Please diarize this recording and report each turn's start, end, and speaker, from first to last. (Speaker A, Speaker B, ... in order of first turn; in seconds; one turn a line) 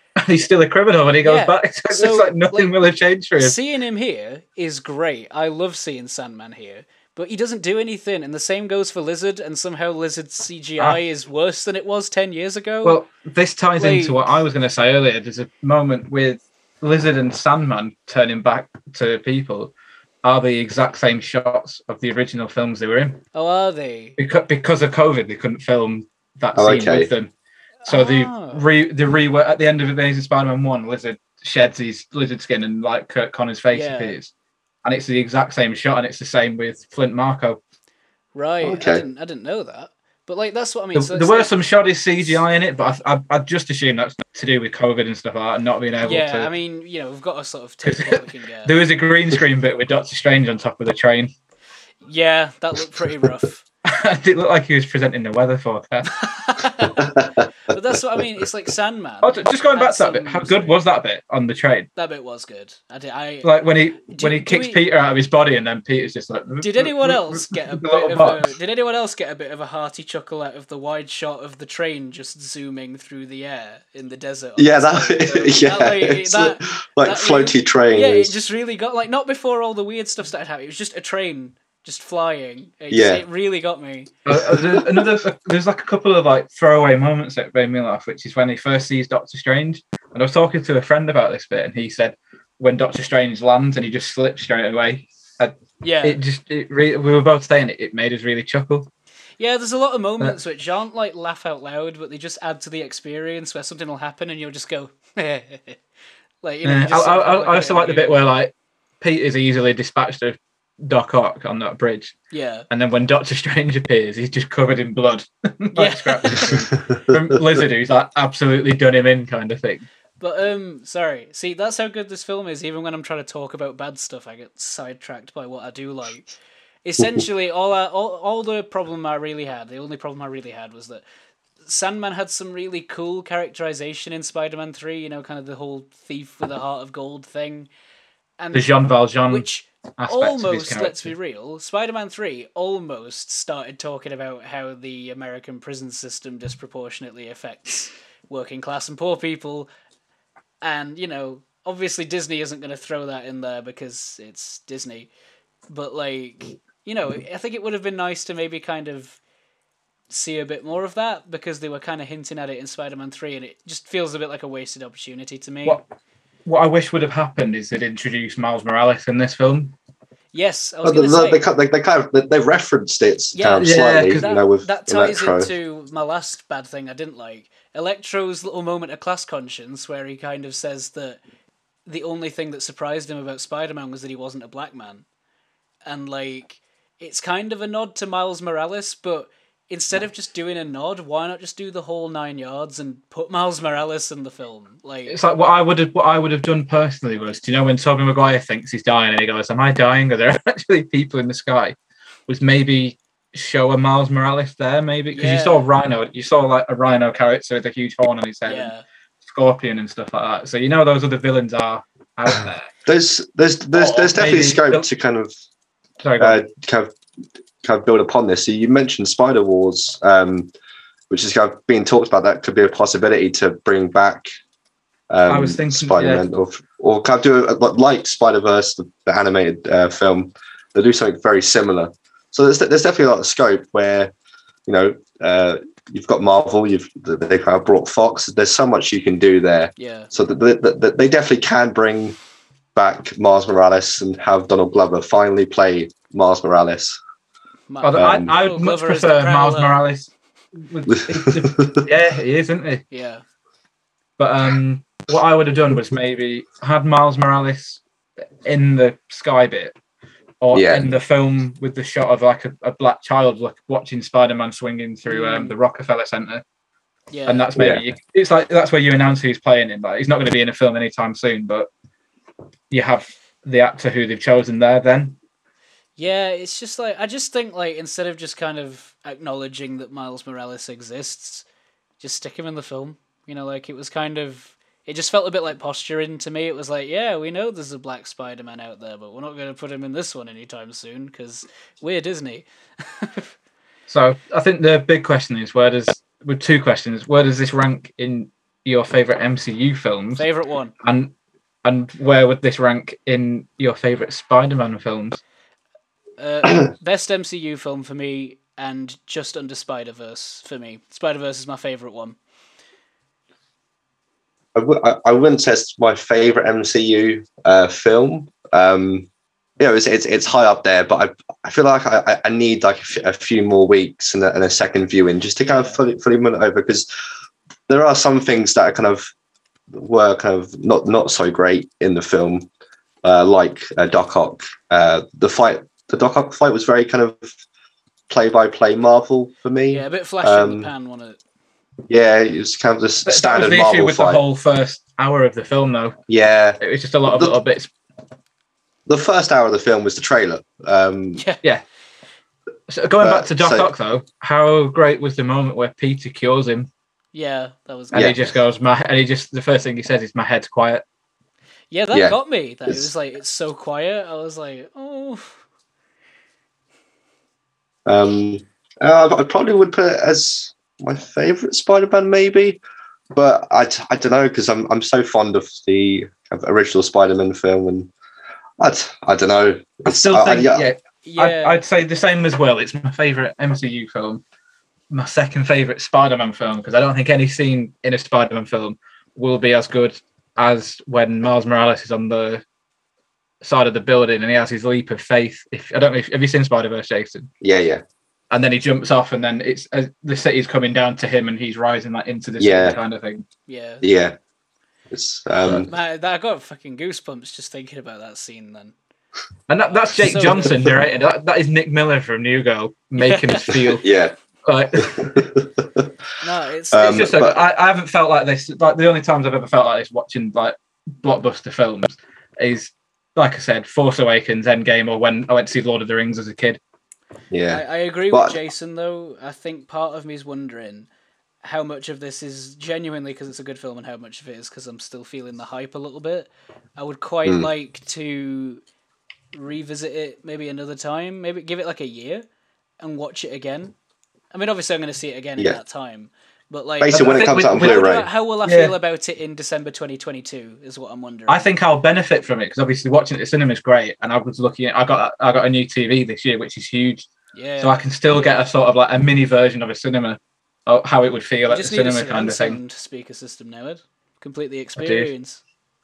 Speaker A: 0.2-3.5
Speaker B: 1.2-2.7
Speaker B: 3.4-13.0
Speaker A: 12.8-23.2
Speaker B: 13.8-14.3
Speaker B: 23.3-24.2
Speaker A: 24.2-27.3
Speaker C: 26.5-27.1
Speaker B: 27.8-28.6
Speaker A: 27.8-34.3
Speaker B: 33.7-34.2
Speaker A: 34.8-37.6
Speaker B: 38.3-41.5
Speaker C: 38.6-39.0
Speaker A: 40.9-46.5
Speaker B: 46.0-48.7
Speaker A: 47.8-51.3
Speaker B: 52.0-53.6
Speaker A: 53.8-56.2
Speaker B: 56.1-57.1
Speaker C: 57.0-57.5
Speaker B: 57.7-60.8
Speaker A: 59.2-61.9
Speaker B: 62.0-63.5
Speaker A: 63.4-68.5
Speaker B: 64.1-64.8
Speaker B: 66.6-84.1
Speaker C: 74.6-78.3
Speaker C: 82.9-83.2
Speaker A: 84.2-98.9
Speaker C: 84.3-85.1
Speaker B: 95.8-96.2
Speaker B: 99.4-105.8
Speaker B: 106.4-108.2
Speaker A: 106.6-112.1
Speaker B: 112.3-112.7
Speaker A: 112.7-119.8
Speaker B: 115.7-116.7
Speaker B: 120.2-126.3
Speaker B: 126.8-131.0
Speaker B: 131.6-137.7
Speaker B: 138.4-138.7
Speaker A: 138.5-139.4
Speaker B: 139.3-149.7
Speaker A: 140.0-141.1
Speaker B: 150.6-155.1
Speaker B: 155.7-159.2
Speaker B: 160.1-165.8
Speaker A: 166.4-169.7
Speaker B: 170.3-171.4
Speaker C: 170.8-175.5
Speaker B: 173.3-181.2
Speaker A: 173.6-174.2
Speaker B: 181.9-185.0
Speaker B: 185.9-195.2
Speaker A: 195.1-201.8
Speaker A: 202.3-208.7
Speaker B: 205.1-205.7
Speaker B: 208.4-208.8
Speaker A: 209.2-212.7
Speaker C: 212.8-215.3
Speaker A: 213.7-214.9
Speaker A: 216.0-216.4
Speaker C: 216.2-216.9
Speaker C: 217.6-220.5
Speaker C: 221.1-224.3
Speaker C: 225.1-234.1
Speaker A: 225.3-226.2
Speaker C: 234.7-242.2
Speaker B: 239.8-240.1
Speaker C: 242.7-247.0
Speaker B: 247.7-249.8
Speaker A: 247.8-250.1
Speaker C: 247.9-248.3
Speaker A: 250.6-252.8
Speaker C: 250.9-251.8
Speaker B: 252.9-253.2
Speaker A: 254.2-257.8
Speaker A: 258.4-259.7
Speaker A: 260.4-266.4
Speaker C: 260.5-260.9
Speaker B: 265.1-265.5
Speaker B: 267.1-267.5
Speaker A: 267.3-271.7
Speaker C: 267.6-267.8
Speaker A: 272.7-275.2
Speaker B: 276.0-281.4
Speaker B: 282.0-293.3
Speaker A: 293.9-300.2
Speaker B: 300.2-300.7
Speaker A: 300.8-301.1
Speaker A: 301.6-305.2
Speaker B: 306.2-312.2
Speaker C: 314.5-319.1
Speaker C: 319.6-326.9
Speaker B: 325.4-325.8
Speaker C: 327.7-329.1
Speaker C: 329.7-332.5
Speaker C: 333.0-337.3
Speaker C: 338.1-340.7
Speaker B: 339.7-341.2
Speaker C: 341.9-344.2
Speaker A: 343.0-345.9
Speaker C: 346.1-347.4
Speaker A: 346.6-347.7
Speaker C: 348.9-351.2
Speaker A: 352.7-356.7
Speaker C: 353.0-353.7
Speaker B: 357.1-358.1
Speaker A: 357.9-360.8
Speaker C: 357.9-358.3
Speaker B: 361.7-365.4
Speaker C: 361.9-362.9
Speaker C: 367.9-372.6
Speaker C: 373.1-377.9
Speaker C: 378.6-380.7
Speaker A: 379.9-384.2
Speaker B: 381.0-381.6
Speaker A: 384.9-392.4
Speaker A: 393.4-397.3
Speaker C: 397.4-397.8
Speaker A: 398.3-403.2
Speaker C: 402.4-402.8
Speaker B: 403.5-403.8
Speaker C: 403.8-404.1
Speaker C: 404.9-405.7
Speaker B: 405.6-408.7
Speaker A: 409.5-413.8
Speaker B: 409.7-410.6
Speaker B: 413.0-413.8
Speaker C: 413.8-414.1
Speaker A: 414.4-415.2
Speaker C: 414.8-415.8
Speaker B: 416.2-417.2
Speaker C: 416.7-417.4
Speaker A: 416.8-426.6
Speaker C: 427.3-428.4
Speaker B: 427.5-430.9
Speaker B: 431.4-438.6
Speaker C: 437.2-437.5
Speaker B: 439.3-442.2
Speaker B: 442.8-443.7
Speaker B: 444.3-451.4
Speaker C: 446.8-448.1
Speaker A: 446.9-447.9
Speaker A: 448.4-448.7
Speaker A: 451.3-462.6
Speaker B: 457.3-458.4
Speaker B: 461.5-465.4
Speaker A: 464.8-465.1